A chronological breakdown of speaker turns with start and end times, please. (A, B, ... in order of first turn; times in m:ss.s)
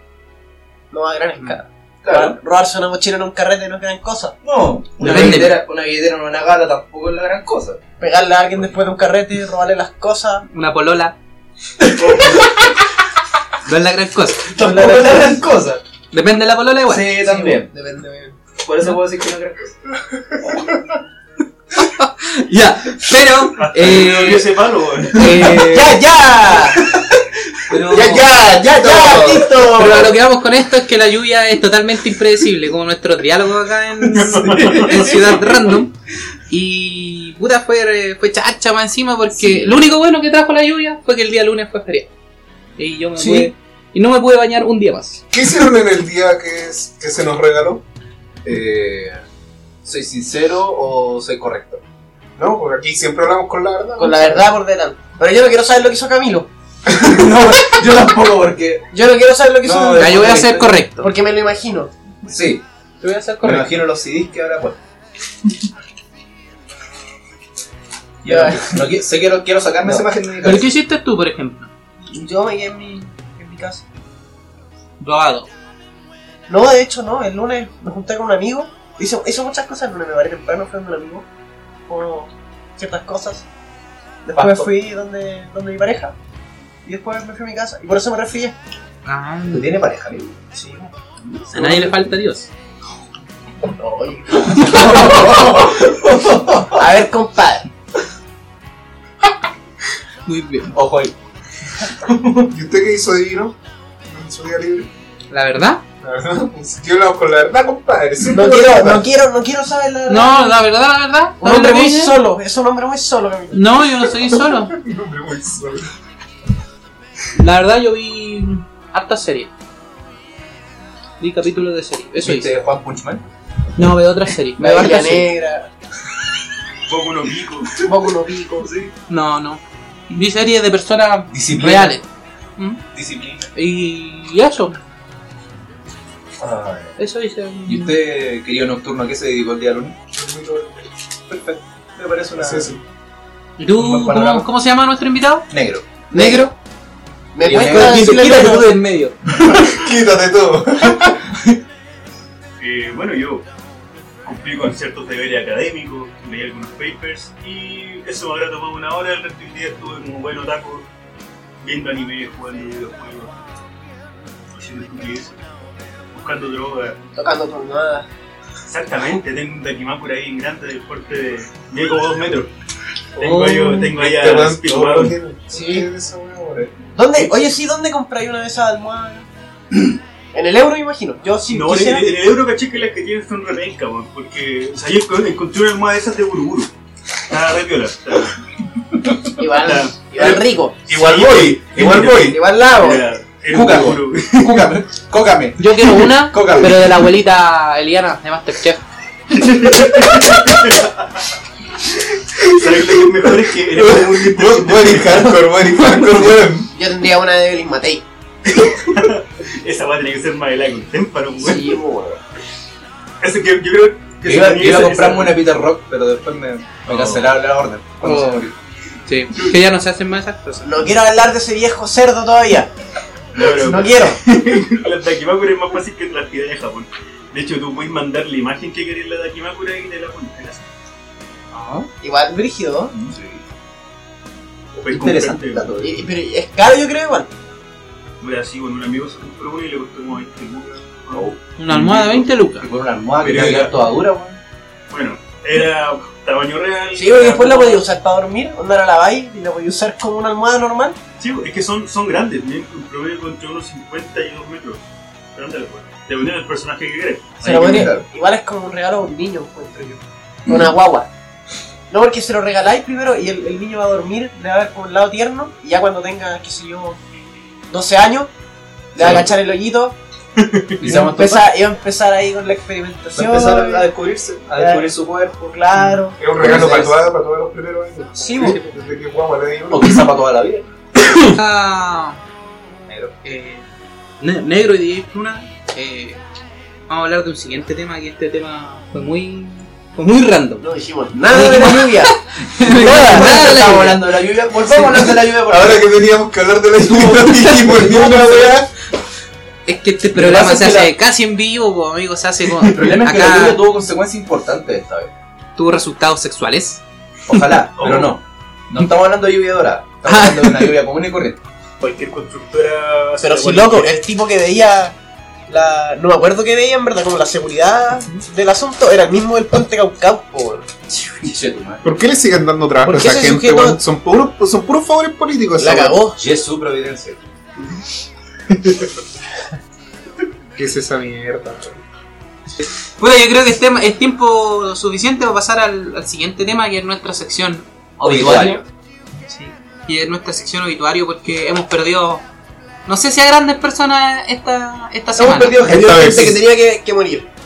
0:00.9-0:04.3 A
0:02.0-0:02.4 B
0:04.4-0:07.8 B
0:05.0-0:05.6 C
0:08.0-0:10.4 A
0:10.5-0:11.2 C
0:11.8-0:12.5 B
0:13.6-0:14.4 C
0:14.5-0:15.8 B
0:14.6-0:15.4 A
0:16.1-0:17.1 C
0:16.9-0:17.7 B
0:17.2-0:18.4 A
0:18.6-0:19.8 B
0:21.8-0:24.5 C
0:23.6-0:25.3 D
0:25.1-0:26.0 C
0:25.5-0:26.9 A
0:27.7-0:29.5 B
0:27.9-0:30.2 A
0:28.2-0:29.5 E
0:29.8-0:35.9 C
0:34.1-0:35.2 B
0:34.2-0:35.0 D
0:36.5-0:42.1 C
0:42.8-0:45.2 C
0:43.2-0:43.5 A
0:45.3-0:47.8 E
0:48.4-0:49.2 B
0:49.8-0:51.8 B
0:52.4-0:54.5 E
0:54.0-0:56.5 A
0:56.9-0:58.9 B
0:58.9-1:00.3 A
0:59.6-1:00.8 B
1:00.0-1:01.1 C
1:01.0-1:01.9 A
1:02.2-1:02.6 B
1:03.0-1:03.7 C
1:03.4-1:04.8 B
1:08.2-1:10.7 B
1:08.2-1:08.9 A
1:10.4-1:11.7 C
1:12.1-1:13.8 A
1:15.0-1:15.5 C
1:16.5-1:21.3 A
1:21.9-1:23.5 A
1:24.2-1:26.2 A
1:24.4-1:24.7 B
1:26.8-1:28.6 A
1:29.1-1:29.7 C
1:29.5-1:30.3 B
1:30.5-1:32.0 A
1:31.5-1:32.5 C
1:33.7-1:35.8 A
1:34.5-1:36.8 B
1:36.8-1:37.7 A
1:40.3-1:40.7 C
1:40.7-1:41.1 B
1:42.0-1:42.5 B
1:42.5-1:44.9 E
1:45.3-1:45.8 C
1:46.0-1:49.1 E
1:48.3-1:50.6 A
1:50.1-1:52.2 C
1:51.4-1:53.7 A
1:53.5-1:54.7 C
1:54.2-1:55.9 E
1:57.4-1:59.5 C
2:01.2-2:02.5 C
2:02.2-2:03.2 B
2:03.8-2:05.3 C
2:04.6-2:05.7 A
2:06.9-2:07.7 D
2:07.8-2:08.7 A
2:08.6-2:08.9 B
2:09.1-2:12.0 C
2:11.3-2:12.0 B
2:12.9-2:13.5 B
2:13.6-2:14.8 C
2:16.4-2:17.0 B
2:17.0-2:17.9 C
2:17.7-2:20.0 B
2:20.1-2:20.9 E
2:21.3-2:22.8 B
2:22.4-2:22.8 E
2:23.6-2:25.5 C
2:23.7-2:24.5 B
2:25.5-2:25.8 B
2:26.1-2:26.5 C
2:26.1-2:26.5 A
2:27.3-2:28.8 A
2:27.4-2:28.3 B
2:27.5-2:29.2 C
2:29.5-2:31.2 E
2:32.6-2:33.4 D
2:34.2-2:40.9 D
2:41.6-2:43.3 D
2:44.5-2:45.4 D
2:46.1-2:47.0 D
2:47.2-2:48.1 A
2:48.7-2:52.5 D
2:53.2-2:55.2 D
2:53.2-2:53.9 C
2:53.9-2:56.7 E
2:55.5-2:55.9 A
2:57.0-2:59.3 A
3:00.3-3:02.3 A
3:01.5-3:06.7 D
3:07.3-3:08.4 D
3:09.4-3:10.8 A
3:09.6-3:10.0 D
3:10.9-3:12.4 E
3:10.9-3:14.4 D
3:12.2-3:13.1 A
3:13.5-3:16.9 B
3:15.6-3:18.8 C
3:19.3-3:21.0 D
3:22.4-3:25.3 D
3:22.5-3:26.7 E
3:26.7-3:28.0 A
3:28.8-3:31.8 D
3:31.4-3:32.2 A
3:33.2-3:35.4 D
3:34.2-3:38.5 B
3:36.9-3:37.3 D
3:38.0-3:38.5 C
3:39.1-3:40.7 C
3:40.6-3:42.7 A
3:43.3-3:50.7 D
3:43.5-3:44.2 A
3:51.6-3:51.9 B
3:52.0-3:53.0 A
3:52.9-3:53.4 B
3:54.8-3:56.1 B
3:54.8-3:55.8 D
3:55.8-3:57.3 A
3:58.2-4:01.3 D
4:01.1-4:04.4 B
4:01.6-4:02.7 C
4:03.2-4:03.8 D
4:04.9-4:07.8 D
4:06.9-4:11.0 A
4:11.2-4:17.4 D
4:17.4-4:18.1 B
4:17.4-4:21.1 A
4:21.9-4:27.0 A
4:27.7-4:28.3 A
4:28.9-4:30.0 A
4:29.0-4:29.3 B
4:30.8-4:31.5 B
4:30.8-4:33.9 A
4:33.2-4:35.5 B
4:34.5-4:36.2 A
4:36.2-4:40.0 E
4:36.4-4:37.0 B
4:38.2-4:38.6 A
4:39.7-4:40.7 B
4:41.2-4:42.2 C
4:42.9-4:43.1 B
4:43.2-4:43.7 C
4:44.2-4:46.2 C
4:46.9-4:50.6 C
4:50.6-4:52.1 A
4:51.3-4:51.8 B
4:51.3-4:54.0 C
4:52.6-4:54.0 A
4:52.8-4:55.8 B
4:55.5-4:58.7 E
4:56.9-4:58.6 B
4:59.7-5:03.6 C
5:00.2-5:00.9 B
5:02.7-5:05.1 B
5:05.6-5:07.5 C
5:07.3-5:11.4 B
5:07.8-5:08.2 D
5:10.1-5:10.8 C
5:11.8-5:13.9 D
5:13.2-5:15.0 A
5:15.5-5:21.2 A
5:21.2-5:21.8 B
5:21.8-5:26.0 E
5:22.8-5:23.8 A
5:25.6-5:26.2 A
5:26.2-5:27.2 B
5:30.6-5:31.8 E
5:33.0-5:38.6 C
5:38.0-5:38.6 B
5:39.3-5:42.2 C
5:42.9-5:45.6 C
5:45.2-5:46.4 B
5:45.6-5:46.4 E
5:45.7-5:47.3 A